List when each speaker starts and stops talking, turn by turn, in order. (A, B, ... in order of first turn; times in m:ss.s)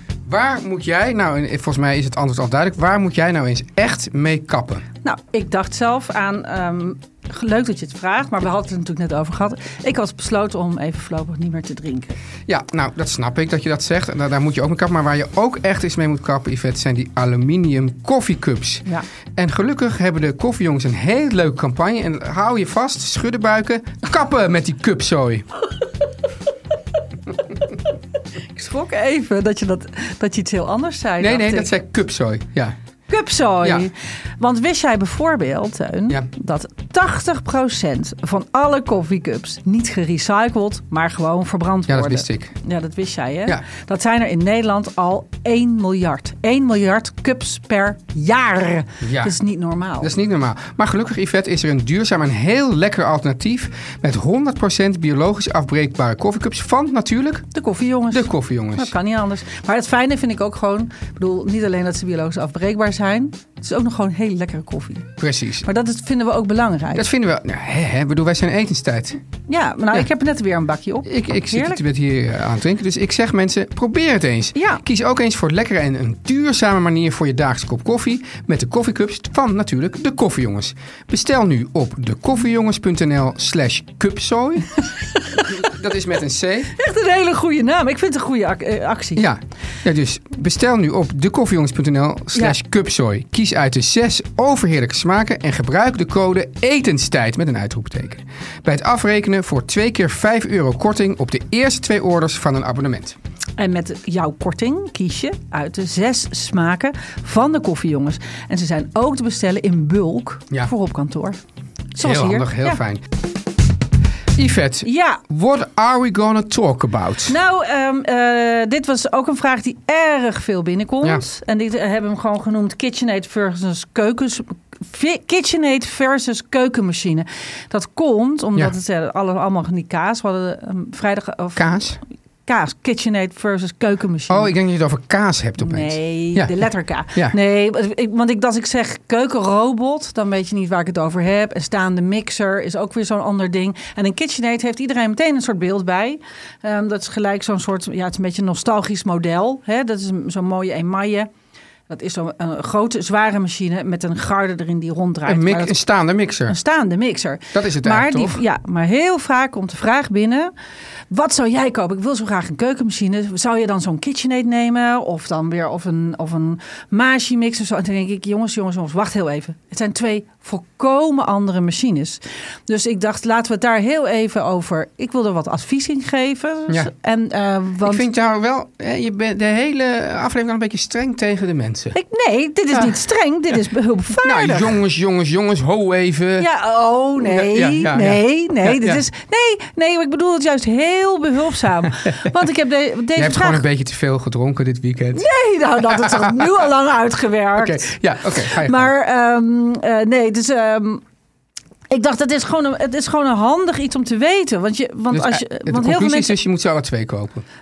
0:00.3-0:04.9 A
0:05.0-0:12.1 B
0:12.5-0:25.5 A
0:28.5-0:31.7 B
0:31.2-0:32.8 A
0:33.1-0:50.1 B
0:33.6-0:33.9 A
0:41.9-0:42.5 A
0:49.0-0:49.4 A
0:50.0-0:57.5 A
0:57.5-1:07.1 B
0:58.1-0:58.9 A
1:05.2-1:05.7 A
1:06.9-1:09.2 A
1:09.5-1:11.8 B
1:11.0-1:24.8 A
1:14.6-1:14.8 B
1:25.2-1:25.5 B
1:25.4-1:26.7 A
1:26.7-1:29.2 B
1:29.2-1:43.2 A
1:43.6-1:51.4 B
1:51.9-1:52.8 B
1:52.0-1:53.1 A
1:54.4-1:57.4 A
1:54.8-1:55.2 B
1:57.3-2:11.9 B
2:11.6-2:12.0 A
2:12.5-2:14.5 B
2:14.3-2:16.5 A
2:15.6-2:31.3 B
2:31.9-2:35.8 B
2:35.3-2:36.6 A
2:36.5-2:40.5 B
2:37.5-2:38.4 A
2:41.1-2:58.0 B
2:57.8-3:02.0 A
3:01.9-3:04.8 B
3:04.2-3:06.5 A
3:06.4-3:13.6 B
3:07.2-3:09.0 A
3:12.0-3:12.3 A
3:13.2-3:15.3 A
3:15.1-3:21.0 B
3:15.8-3:16.5 A
3:17.6-3:18.9 A
3:21.9-3:26.4 B
3:25.1-3:27.4 A